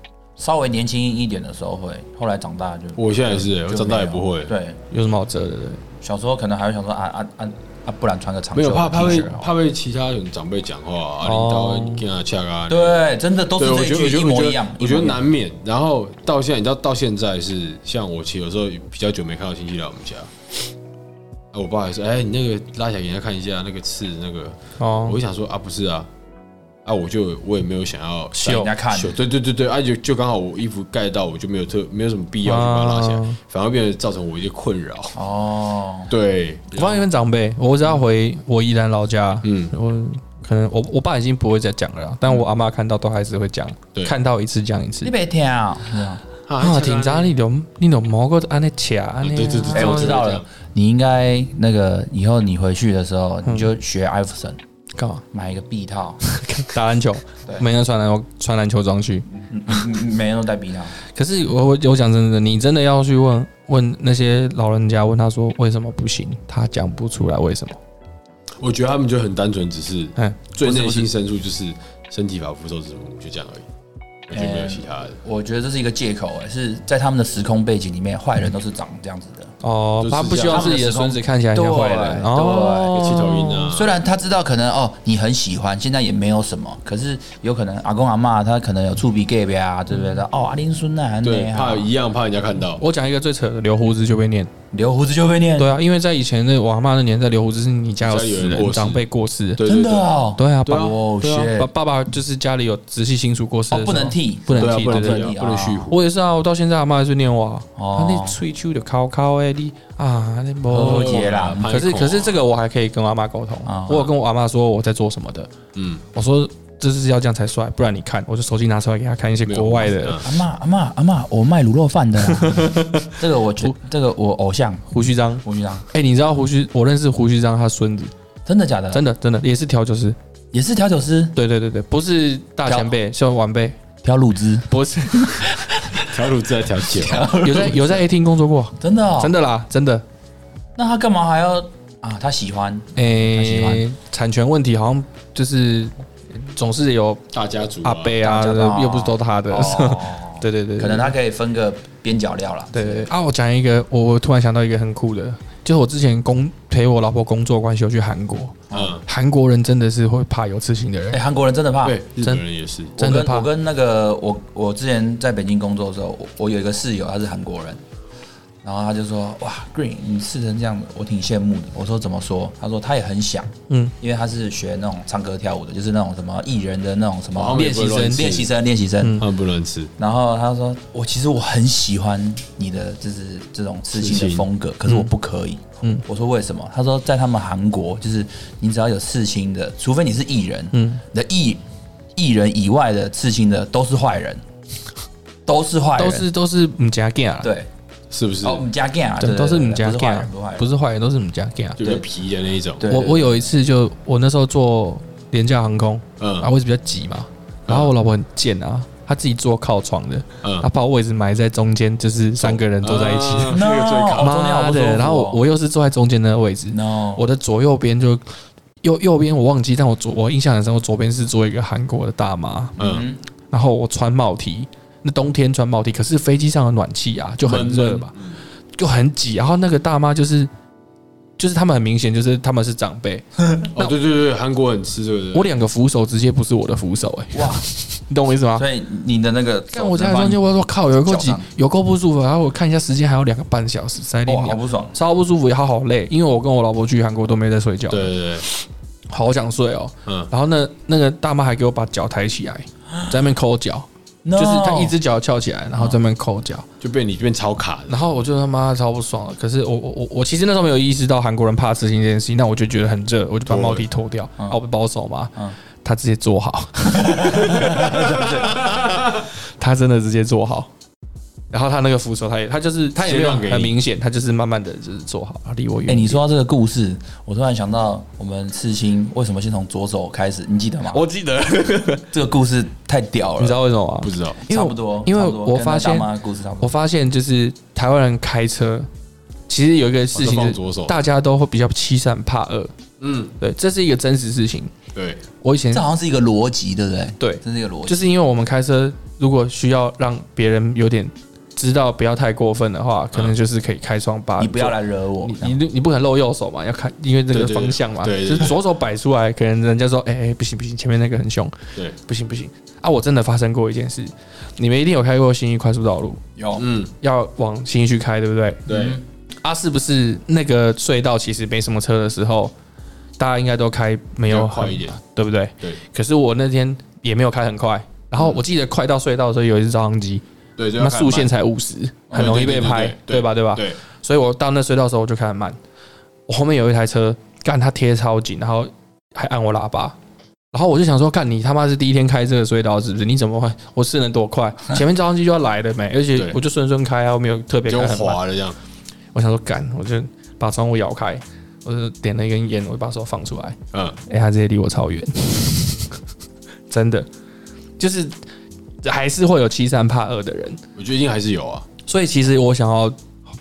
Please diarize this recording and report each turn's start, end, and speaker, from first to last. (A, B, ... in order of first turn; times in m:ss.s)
0:00.4-0:04.8 A
0:03.0-0:04.5 B
0:04.9-0:05.8 C
0:06.0-0:09.5 A
0:08.6-0:13.0 B
0:11.2-0:12.0 C
0:12.7-0:15.2 A
0:13.6-0:20.3 B
0:21.5-0:26.1 B
0:24.8-0:25.2 C
0:26.8-0:35.2 B
0:28.4-0:28.7 C
0:28.4-0:29.2 A
0:32.4-0:33.4 C
0:35.2-0:36.1 A
0:36.1-0:37.1 B
0:36.7-0:45.1 C
0:39.4-0:39.7 B
0:45.0-0:46.2 A
0:46.5-0:47.4 B
0:46.6-0:50.4 C
0:49.2-0:50.5 B
0:49.7-0:54.6 A
0:53.5-0:53.7 C
0:55.0-0:55.2 C
0:55.3-0:56.2 A
0:56.3-0:59.8 C
0:59.4-1:01.0 A
1:01.1-1:07.8 C
1:08.6-1:13.7 B
1:10.2-1:11.1 C
1:14.3-1:15.2 B
1:14.3-1:19.5 A
1:19.6-1:23.7 C
1:20.0-1:20.8 B
1:20.4-1:31.9 A
1:22.9-1:24.0 B
1:31.2-1:32.8 B
1:32.8-1:34.5 C
1:34.7-1:35.8 A
1:35.6-1:39.6 C
1:38.0-1:40.1 B
1:39.6-1:41.7 A
1:40.4-1:40.9 C
1:40.7-1:41.5 B
1:41.6-1:45.3 C
1:43.7-1:45.9 A
1:44.6-1:46.0 B
1:45.9-1:55.5 C
1:47.8-1:48.4 A
1:50.7-1:51.7 A
1:50.8-1:52.4 B
1:53.6-1:54.1 A
1:55.7-1:56.0 B
1:56.1-2:00.2 C
1:59.5-2:00.4 B
2:00.2-2:04.9 A
2:02.3-2:03.7 C
2:04.9-2:08.1 C
2:05.4-2:05.9 A
2:08.5-2:09.0 A
2:08.9-2:10.2 C
2:10.5-2:11.4 A
2:11.4-2:13.8 C
2:12.7-2:12.9 A
2:14.0-2:18.0 A
2:14.7-2:15.6 C
2:16.1-2:17.4 B
2:17.4-2:20.0 C
2:18.8-2:19.3 A
2:20.8-2:23.8 A
2:23.0-2:27.2 C
2:27.3-2:28.2 B
2:27.8-2:31.2 C
2:28.2-2:33.1 A
2:32.7-2:41.2 C
2:38.7-2:39.0 A
2:38.7-2:39.0 B
2:41.1-2:42.0 A
2:41.8-2:43.0 B
2:43.0-2:43.5 C
2:43.0-2:47.8 A
2:48.6-2:59.3 A
2:53.7-2:53.9 C
2:57.3-2:58.5 B
2:57.7-2:58.2 C
2:59.0-2:59.2 C
2:59.2-2:59.9 B
3:00.0-3:11.6 A
3:04.0-3:04.5 B
3:10.7-3:11.0 C
3:12.2-3:14.4 A
3:15.5-3:16.3 A
3:16.0-3:17.5 C
3:17.4-3:17.7 A
3:18.1-3:18.7 B
3:18.4-3:20.7 A
3:19.2-3:21.9 C
3:21.8-3:22.9 B
3:22.8-3:23.5 A
3:22.9-3:33.6 C
3:26.2-3:26.5 B
3:27.7-3:27.9 B
3:30.4-3:30.7 B
3:32.4-3:34.4 B
3:33.5-3:35.4 A
3:34.2-3:38.3 C
3:36.7-3:37.2 A
3:38.8-3:42.8 C
3:42.8-3:43.1 B
3:42.8-3:43.2 A
3:43.5-3:48.1 C
3:47.4-3:48.4 B
3:48.8-3:50.5 C
3:51.4-3:53.9 C
3:53.8-3:55.5 B
3:55.3-3:58.7 C
3:57.3-3:57.7 A
3:58.6-4:01.5 A
3:59.7-4:16.7 C
4:04.3-4:05.0 A
4:07.9-4:08.5 B
4:14.2-4:15.0 A
4:16.8-4:18.0 B
4:17.9-4:30.7 C
4:23.5-4:23.9 B
4:26.9-4:28.6 A
4:28.5-4:29.1 B
4:31.5-4:36.2 C
4:33.0-4:33.8 B
4:35.9-4:41.0 A
4:40.9-4:42.1 C
4:42.1-4:43.6 A
4:43.4-4:46.1 C
4:44.0-4:44.4 B
4:44.5-4:46.8 A
4:46.6-4:48.9 C
4:49.5-4:52.7 C
4:50.1-4:51.0 B
4:53.0-4:53.3 B
4:53.4-4:54.7 C
4:54.9-4:55.2 B
4:55.4-4:55.8 C
4:55.7-4:58.1 A
4:57.2-5:16.2 C
5:04.4-5:05.6 A
5:07.3-5:08.6 B
5:16.4-5:16.7 A
5:16.6-5:16.9 B
5:17.0-5:18.6 C
5:18.7-5:19.0 B
5:18.7-5:19.0 A
5:19.4-5:22.5 C
5:23.2-5:30.2 C
5:24.3-5:25.0 B
5:30.6-5:31.3 B
5:30.8-5:35.6 C
5:32.1-5:33.8 B
5:36.3-5:40.0 C
5:40.5-5:48.2 C
5:47.7-5:48.6 B
5:49.1-5:56.0 C
5:56.7-5:57.1 C
5:57.8-5:58.2 C
5:58.8-6:00.6 C
6:00.8-6:01.7 B
6:01.9-6:03.0 C